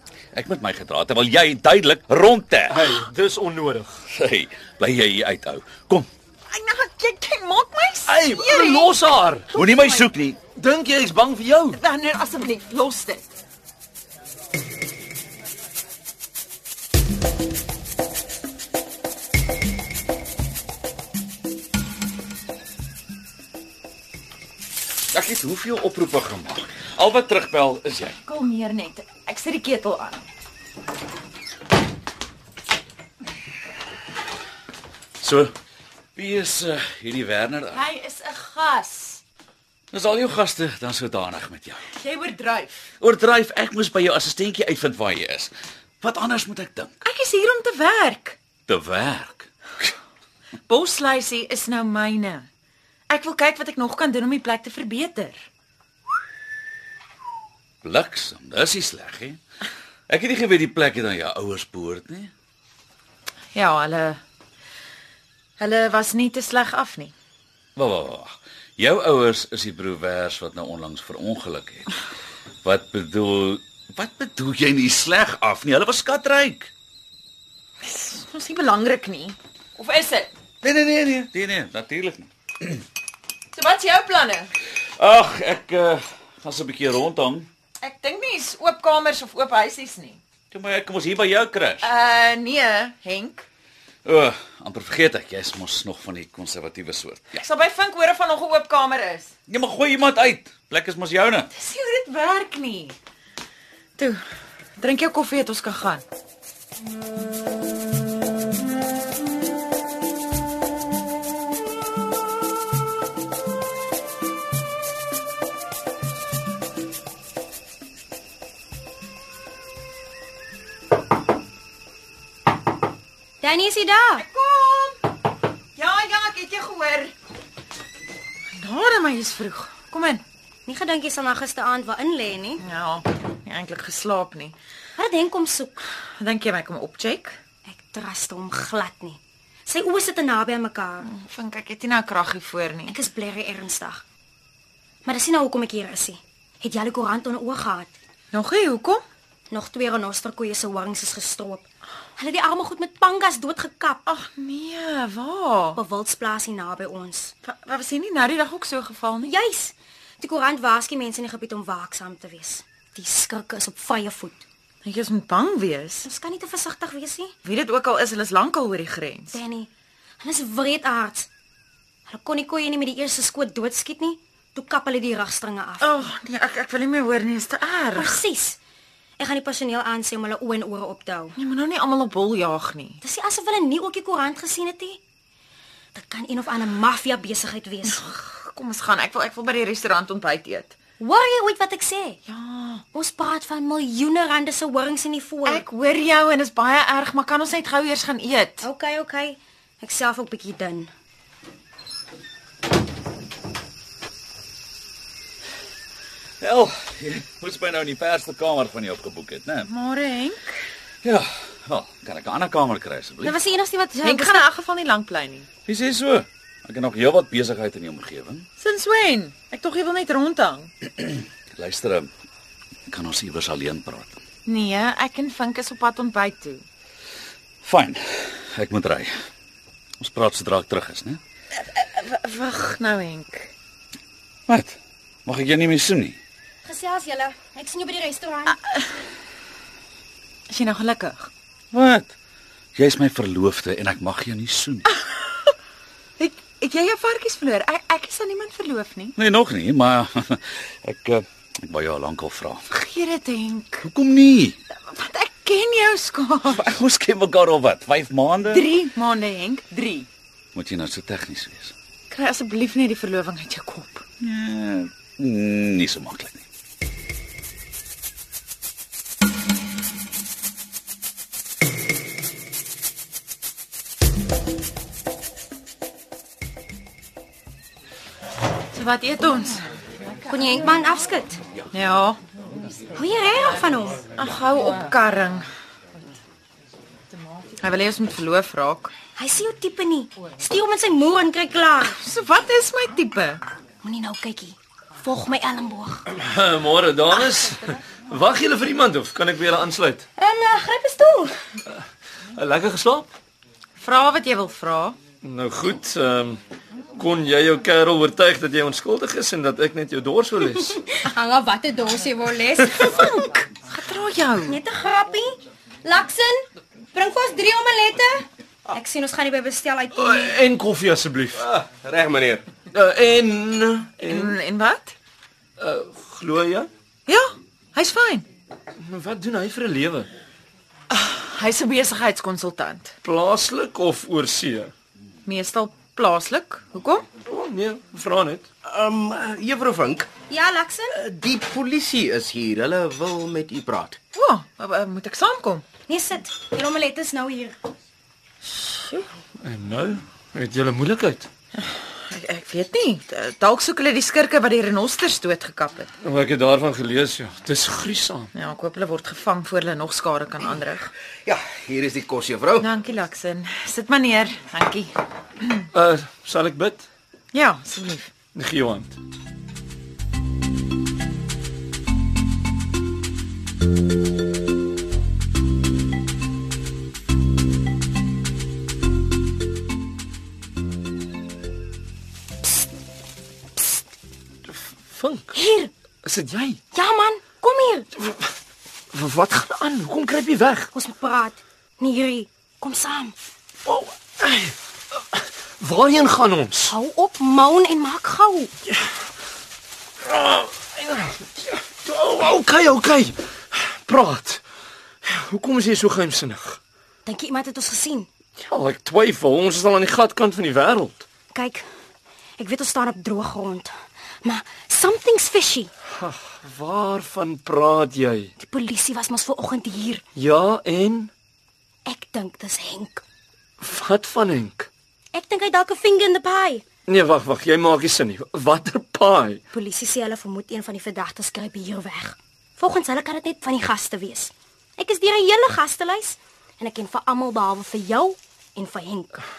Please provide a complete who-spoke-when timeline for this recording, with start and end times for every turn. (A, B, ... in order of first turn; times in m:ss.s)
0:00.3-0:02.9 A
0:02.7-0:04.0 B
0:04.1-0:06.1 A
0:06.5-0:08.9 C
0:08.1-0:09.5 B
0:09.6-0:10.4 A
0:09.6-0:09.9 C
0:10.5-0:11.8 B
0:11.7-0:13.3 C
0:25.1-0:28.2 A
0:28.2-0:30.3 C
0:35.2-0:35.6 A
0:36.2-0:37.8 A
0:37.7-0:39.2 C
0:39.9-0:41.8 A
0:42.0-0:42.9 C
0:43.0-0:47.0 A
0:47.0-0:48.4 C
0:48.7-0:49.5 A
0:50.7-0:52.5 C
0:53.1-0:55.4 C
0:57.8-0:59.4 A
1:00.1-1:02.3 A
1:03.6-1:04.2 C
1:05.6-1:07.1 C
1:07.8-1:12.0 A
1:12.6-1:16.7 A
1:17.8-1:20.3 C
1:20.6-1:22.8 A
1:23.5-1:24.5 C
1:25.0-1:27.5 A
1:27.8-1:30.2 C
1:30.5-1:31.9 A
1:31.8-1:33.5 C
1:34.0-1:37.4 A
1:37.4-1:39.3 C
1:39.5-1:41.5 A
1:41.5-1:43.0 C
1:44.8-1:46.0 C
2:03.4-2:04.2 D
2:04.2-2:05.0 C
2:05.8-2:07.1 C
2:08.6-2:10.2 C
2:10.7-2:12.6 D
2:12.6-2:14.5 C
2:15.0-2:15.8 D
2:16.2-2:17.4 C
2:17.7-2:21.1 D
2:21.0-2:23.0 C
2:22.9-2:24.0 D
2:25.0-2:27.9 D
2:28.3-2:29.0 C
2:29.5-2:31.6 D
2:32.2-2:34.0 D
2:34.1-2:35.8 C
2:35.8-2:37.3 D
2:37.4-2:39.3 C
2:39.2-2:44.4 D
2:44.8-2:46.1 C
2:46.0-2:47.3 D
2:47.4-2:49.4 C
2:49.3-2:49.7 D
2:50.2-2:51.3 D
2:52.1-2:56.0 D
2:55.8-2:58.2 C
2:58.0-2:58.6 D
2:59.2-3:01.4 D
3:01.4-3:03.0 C
3:03.0-3:05.0 D
3:05.9-3:08.1 D
3:07.9-3:10.8 C
3:11.0-3:12.2 D
3:12.3-3:12.8 C
3:12.9-3:15.6 D
3:15.4-3:18.7 C
3:18.6-3:20.9 D
3:26.4-3:29.7 A
3:29.7-3:30.6 C
3:31.0-3:33.4 A
3:33.2-3:34.5 D
3:34.0-3:35.5 C
3:35.7-3:38.5 A
3:38.6-3:40.7 C
3:41.5-3:42.1 A
3:42.9-3:44.2 A
3:44.5-3:46.6 C
3:47.6-3:49.2 A
3:50.0-3:51.2 A
3:51.6-3:53.5 C
3:54.5-3:56.2 A
3:56.6-3:58.6 D
3:58.5-3:58.8 C
4:00.5-4:01.3 C
4:01.7-4:02.1 A
4:02.8-4:04.9 A
4:06.2-4:09.2 C
4:09.2-4:12.6 A
4:12.7-4:13.8 C
4:13.8-4:14.6 A
4:14.7-4:16.7 C
4:16.5-4:18.7 A
4:18.5-4:20.1 C
4:20.6-4:21.7 A
4:22.1-4:24.0 C
4:24.2-4:26.4 A
4:38.7-4:39.6 C
4:40.3-4:41.4 D
4:41.7-4:42.2 C
4:43.0-4:44.1 D
4:44.2-4:45.5 C
4:47.6-4:48.9 C
4:49.2-4:52.0 D
4:52.0-4:53.4 C
4:53.8-4:56.0 D
4:56.1-5:00.0 B
5:00.2-5:01.4 D
5:02.4-5:03.1 B
5:03.8-5:05.0 C
5:05.2-5:06.4 B
5:07.0-5:10.8 B
5:10.6-5:13.4 D
5:13.6-5:14.6 C
5:14.5-5:20.4 D
5:19.9-5:21.6 B
5:21.6-5:22.5 E
5:22.7-5:24.4 B
5:24.0-5:25.0 C
5:25.6-5:26.7 B
5:27.1-5:28.3 C
5:28.8-5:30.1 B
5:30.9-5:32.9 C
5:33.0-5:34.7 B
5:35.3-5:37.1 C
5:37.3-5:38.5 B
5:38.6-5:40.1 E
5:40.3-5:40.9 D
5:40.9-5:44.0 E
5:44.2-5:45.6 C
5:45.9-5:47.6 D
5:48.5-5:49.0 C
5:49.4-5:51.3 B
5:51.6-5:55.9 C
5:56.0-5:58.3 B
5:58.3-6:00.9 C
6:01.3-6:02.7 E
6:02.6-6:04.9 C
6:05.7-6:06.9 B
6:07.3-6:08.1 C
6:08.3-6:09.0 B
6:24.5-6:25.4 B
6:25.3-6:25.7 D
6:26.0-6:26.6 B
6:26.7-6:27.9 D
6:28.0-6:28.3 B
6:28.9-6:30.7 B
6:30.7-6:33.2 D
6:33.7-6:36.7 B
6:36.7-6:38.5 D
6:38.7-6:39.0 B
6:40.0-6:44.4 B
6:45.0-6:46.6 B
6:47.1-6:48.1 D
6:48.4-6:51.0 B
6:51.3-6:51.7 D
6:52.4-6:53.7 D
6:54.2-6:55.7 D
6:55.9-6:58.3 B
6:58.4-7:00.0 D
7:00.2-7:01.1 B
7:01.9-7:03.0 D
7:03.6-7:04.7 B
7:05.1-7:06.6 D
7:06.9-7:09.4 B
7:09.5-7:19.2 D